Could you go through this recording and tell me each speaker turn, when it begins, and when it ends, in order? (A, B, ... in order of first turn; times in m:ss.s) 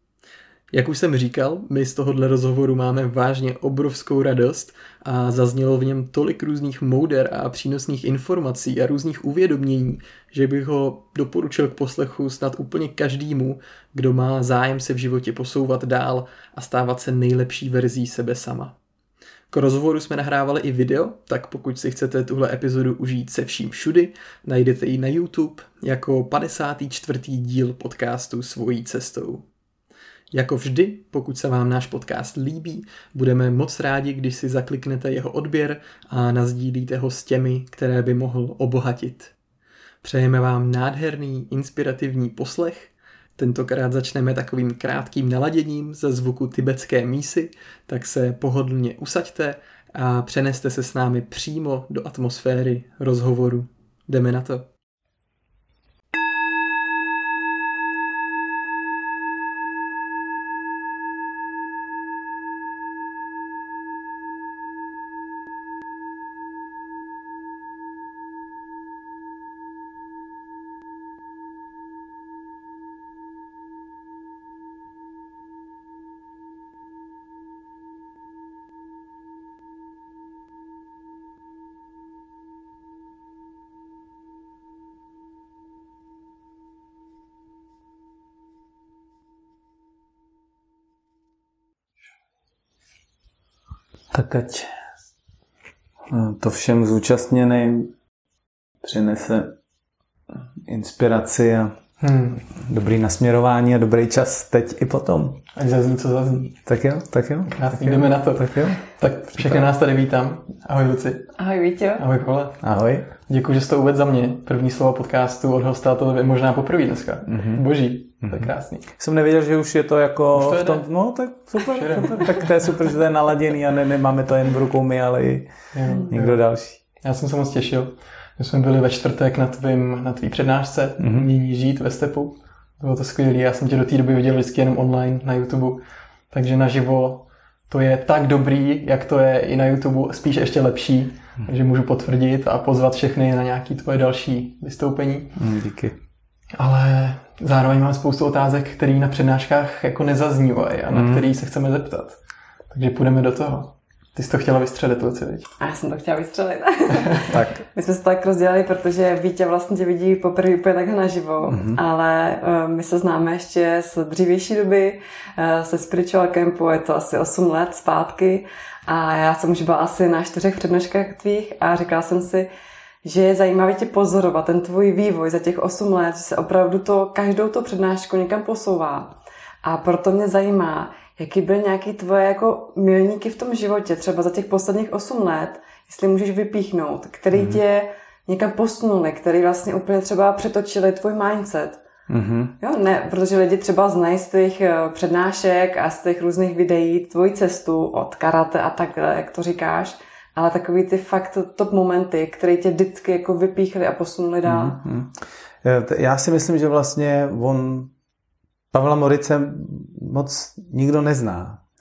0:00.7-0:18.8 A
0:19.5-0:29.4 A
0:30.3-0:39.3 A
0:40.0-0:54.7 A
1:34.1-1:34.7 B
1:36.1-1:37.9 B
1:38.8-1:39.5 B
1:40.6-1:41.8 B
1:42.0-1:42.4 A
1:42.5-1:45.4 B
1:45.6-1:46.5 A
1:46.5-1:48.8 B
1:47.5-1:51.3 A
1:49.4-1:49.6 B
1:51.4-1:52.0 C
1:52.0-1:52.6 A
1:52.6-1:53.1 B
1:53.3-1:58.9 A
1:57.3-1:57.6 B
1:58.2-2:05.5 B
2:00.3-2:00.9 A
2:01.6-2:02.6 A
2:05.7-2:06.4 A
2:06.1-2:06.8 B
2:07.0-2:25.4 A
2:11.0-2:11.3 B
2:25.4-2:26.0 B
2:26.6-2:32.2 A
2:30.9-2:31.3 B
2:32.7-2:35.5 A
2:35.6-2:52.5 C
2:37.3-2:37.6 B
2:41.5-2:41.8 B
2:53.0-2:59.1 C
2:59.6-3:11.8 C
3:07.3-3:07.6 B
3:12.1-3:12.6 B
3:12.6-3:24.8 C
3:24.5-3:27.9 B
3:28.7-3:31.6 B